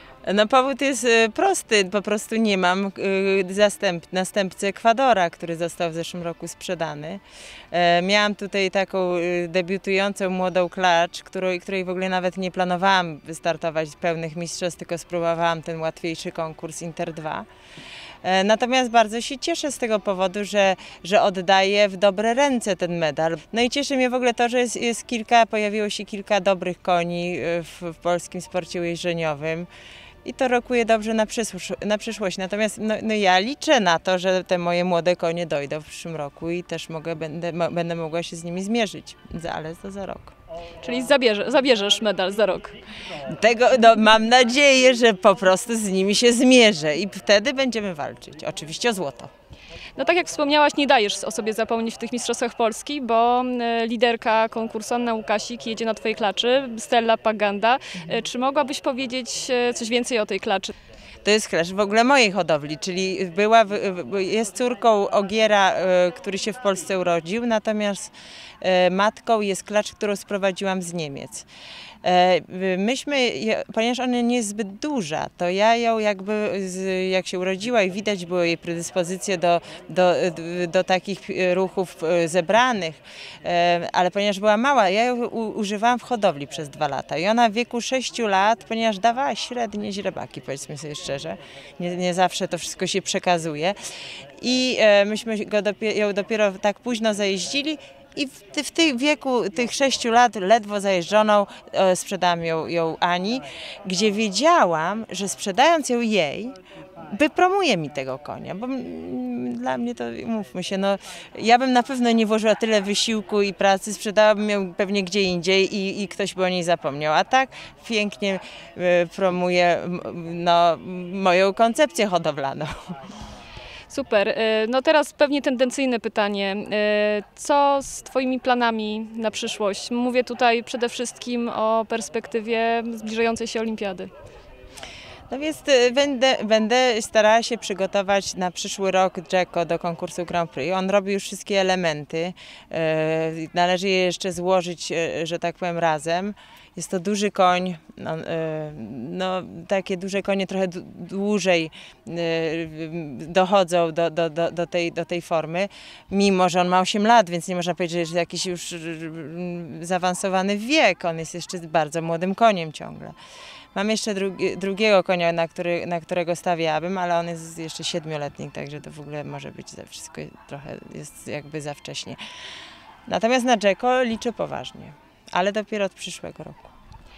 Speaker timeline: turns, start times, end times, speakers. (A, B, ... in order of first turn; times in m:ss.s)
0:00.2-0:17.5 A
0:18.2-0:29.7 A
0:30.2-0:40.3 A
0:40.8-0:42.8 B
0:43.2-0:49.3 A
0:50.0-1:00.7 B
1:01.2-1:11.5 A
1:12.0-1:33.8 A
1:34.4-2:02.7 A
2:03.9-2:14.1 B
2:15.3-2:43.2 A
2:43.8-2:52.2 A
2:53.1-2:56.7 A